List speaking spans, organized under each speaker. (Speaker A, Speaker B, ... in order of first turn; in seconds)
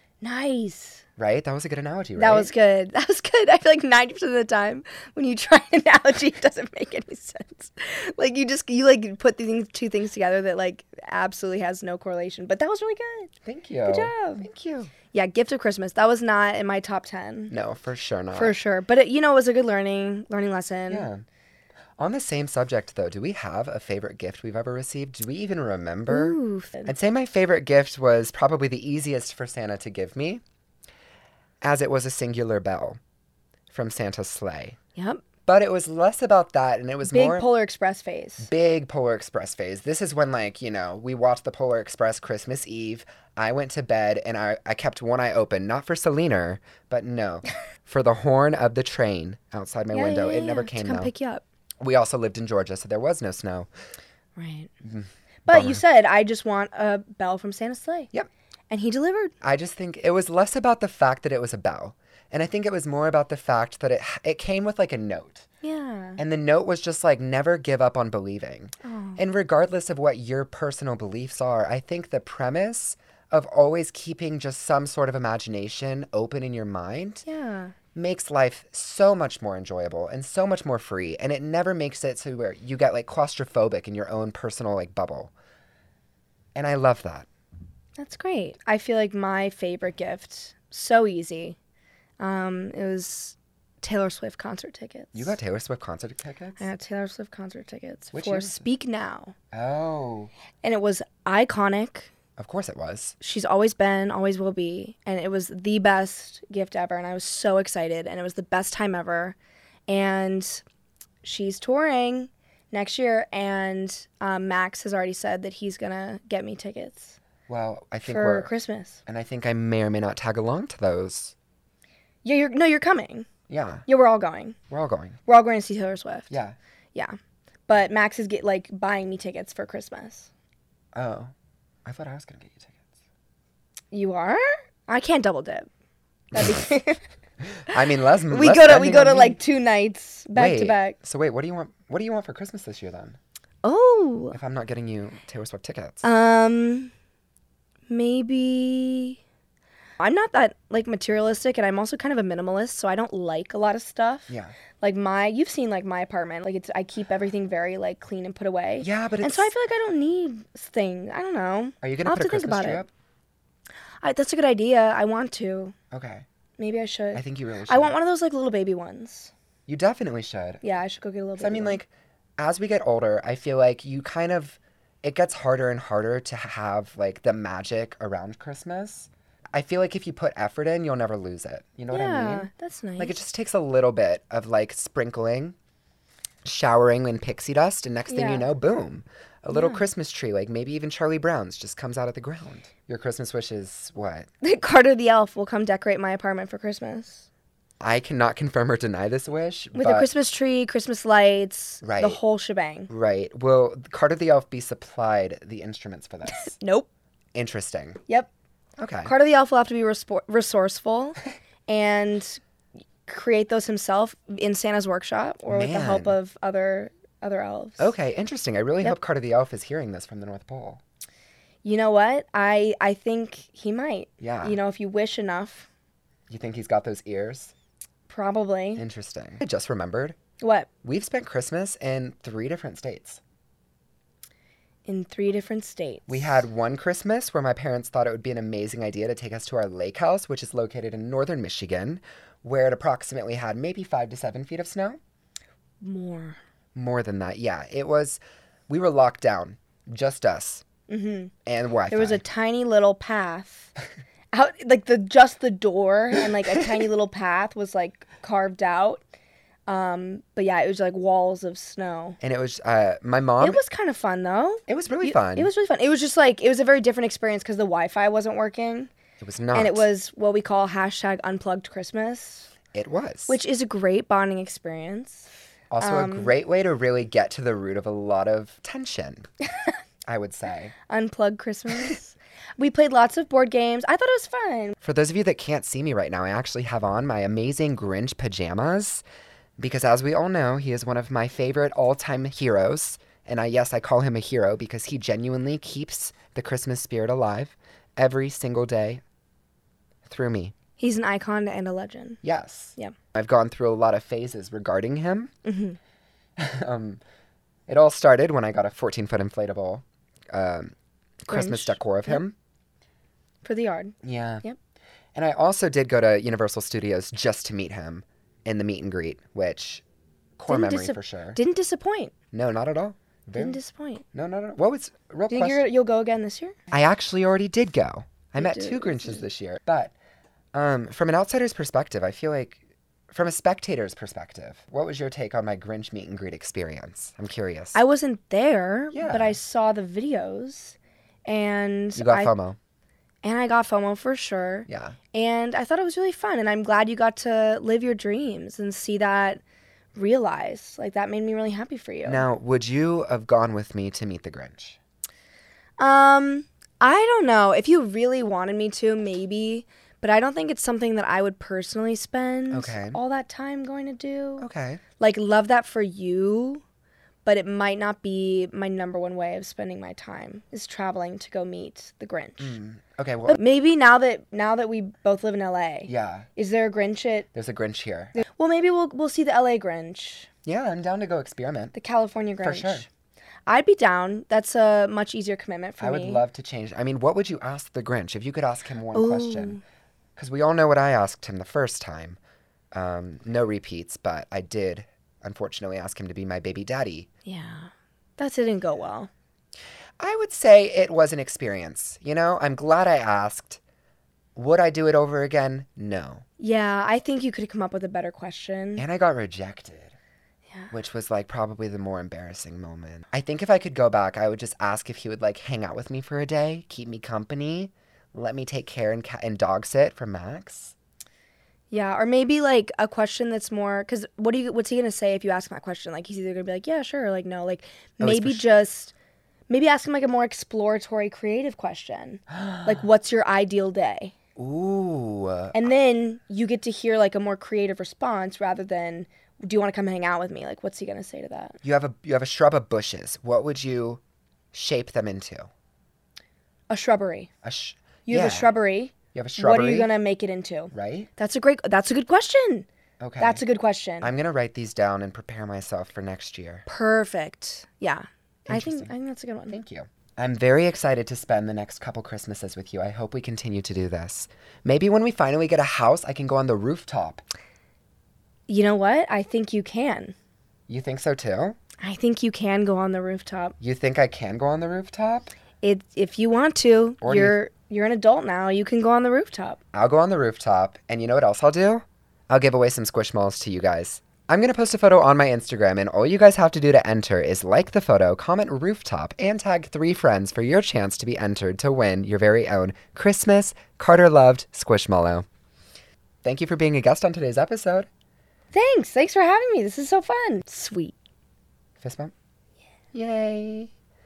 Speaker A: 0.2-1.0, 2.2-13.3, 13.9-14.5, 15.1-17.5, 18.3-21.1, 26.1-26.9, 35.0-35.2, 37.0-38.5, 49.9-51.4, 54.4-54.7, 55.5-58.1, 58.7-59.3, 65.6-66.2, 68.8-69.2, 77.2-77.7, 88.0-91.6, 92.2-95.4, 96.6-99.3, 100.6-102.1, 103.2-109.3, 109.9-110.6, 111.2-117.2, 118.0-119.0, 122.2-123.3, 123.9-124.6, 125.3-126.3, 127.7-130.3, 133.9-135.7, 136.3-137.0, 137.7-140.9, 143.6-144.4, 146.0-146.9, 147.9-149.2, 150.0-162.8, 164.0-165.8, 166.6-169.3, 170.6-171.8, 181.9-183.2, 188.1-188.5, 189.5-189.8, 194.4-197.3, 199.7-202.9, 206.2-206.9, 209.0-212.4, 213.1-217.9, 221.6-225.7, 228.1-228.8, 230.4-230.7, 234.8-236.4, 245.8-246.4, 250.9-251.3, 251.9-253.7, 254.3-259.0, 259.7-262.2, 263.4-268.9, 269.5-272.5, 273.3-275.3, 275.8-276.3, 280.9-284.8, 300.8-302.2, 305.4-305.8, 311.3-312.2, 313.4-314.6, 320.5-322.1, 323.4-324.0, 325.3-326.6, 328.4-329.2, 337.7-342.3, 343.2-349.4, 349.9-352.2, 355.8-364.5, 365.0-366.6, 367.2-372.6, 373.3-377.3, 378.1-380.3, 381.7-382.9, 383.5-386.2, 388.9-389.6, 397.2-399.1, 406.4-408.9, 421.7-428.9, 429.5-434.1, 435.5-441.6, 446.7-447.3, 448.1-452.7, 453.2-454.1, 456.7-459.6, 468.5-470.1, 471.8-473.6, 475.6-479.6, 498.5-500.9
Speaker B: 1.2-2.5, 13.4-14.9, 17.5-18.6, 20.9-21.2, 22.0-30.4, 31.6-33.0, 33.7-34.8, 35.5-37.5, 38.4-51.1, 51.8-53.7, 54.8-55.8, 59.4-65.5, 66.2-77.2, 77.9-85.3, 86.5-87.3, 95.1-96.7, 98.1-98.6, 99.5-100.3, 102.4-103.2, 117.5-118.5, 119.0-121.3, 123.5-123.8, 124.7-125.2, 126.3-126.5, 130.9-131.3, 131.8-132.8, 137.6-139.4, 140.3-143.2, 144.3-146.1, 154.3-154.5, 158.8-159.5, 161.8-162.9, 165.9-166.2, 167.1-167.9, 169.7-170.6, 171.4-185.5, 186.4-194.3, 197.8-200.1, 201.8-202.2, 202.9-206.5, 207.3-208.0, 208.8-209.1, 215.5-216.2, 217.8-220.8, 224.2-224.6, 226.3-227.5, 228.8-230.2, 230.8-233.2, 236.1-245.0, 246.7-250.6, 251.4-252.2, 262.2-263.6, 264.7-265.5, 269.2-269.9, 272.7-273.4, 275.7-279.3, 280.1-280.7, 284.8-289.0, 289.6-299.0, 300.1-300.5, 302.2-305.3, 306.4-307.0, 307.7-310.7, 311.3-312.3, 314.0-314.4, 315.1-319.8, 320.4-321.4, 322.3-323.6, 324.1-325.6, 326.7-329.9, 330.5-337.8, 338.9-339.4, 341.9-342.6, 344.7-344.9, 352.0-354.8, 362.5-363.0, 364.4-364.8, 372.4-373.4, 375.9-376.3, 377.3-378.2, 380.4-381.7, 382.4-382.9, 385.8-389.6, 390.1-392.2, 392.7-397.1, 400.0-403.6, 404.3-406.2, 408.8-409.9, 410.7-420.7, 428.0-428.4, 432.3-432.8, 434.4-435.6, 441.6-444.0, 444.5-445.5, 447.4-448.5, 449.1-449.9, 450.7-451.1, 453.0-453.4, 454.0-456.6, 458.5-458.9, 459.5-467.2, 470.7-471.6, 473.6-475.3, 477.0-477.4, 479.7-495.2, 496.2-497.9, 501.8-502.1, 502.9-503.7